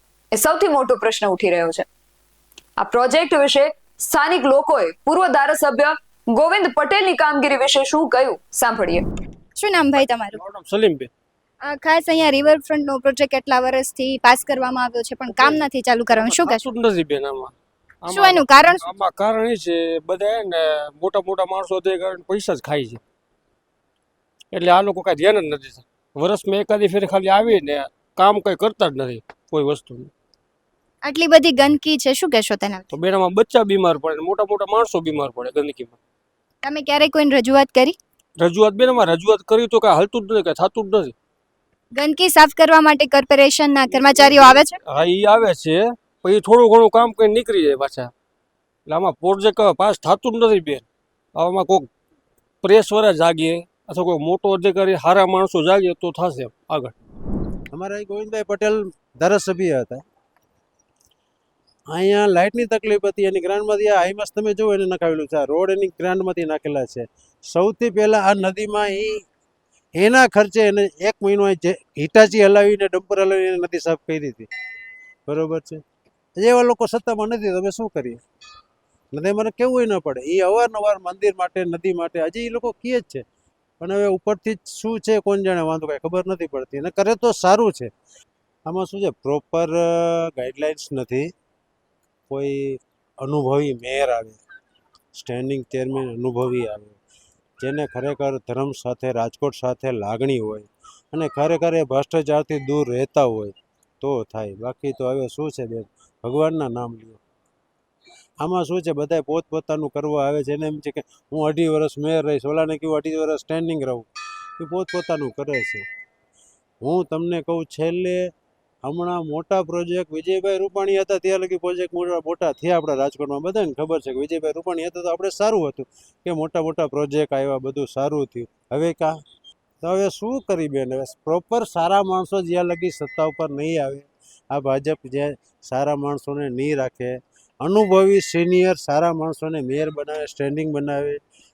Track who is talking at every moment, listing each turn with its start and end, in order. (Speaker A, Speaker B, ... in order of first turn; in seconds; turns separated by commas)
Speaker A: 0.3-1.9, Speaker A: 2.8-9.0, Speaker B: 9.6-10.4, Speaker C: 10.4-11.1, Speaker B: 11.6-16.6, Speaker C: 16.2-23.0, Speaker B: 18.1-18.9, Speaker C: 24.5-30.1, Speaker B: 31.0-32.9, Speaker C: 32.9-36.0, Speaker B: 36.6-38.0, Speaker C: 38.4-41.1, Speaker B: 41.9-44.8, Speaker C: 44.1-48.1, Speaker C: 48.9-51.9, Speaker C: 52.6-56.9, Speaker D: 57.7-60.0, Speaker D: 61.9-69.2, Speaker D: 70.0-74.5, Speaker D: 75.3-75.8, Speaker D: 76.4-78.2, Speaker D: 79.1-83.2, Speaker D: 83.8-87.9, Speaker D: 88.7-91.3, Speaker D: 92.3-94.4, Speaker D: 95.2-97.0, Speaker D: 97.6-107.2, Speaker D: 108.4-114.1, Speaker D: 114.6-115.8, Speaker D: 116.8-118.3, Speaker D: 118.8-129.2, Speaker D: 129.8-141.2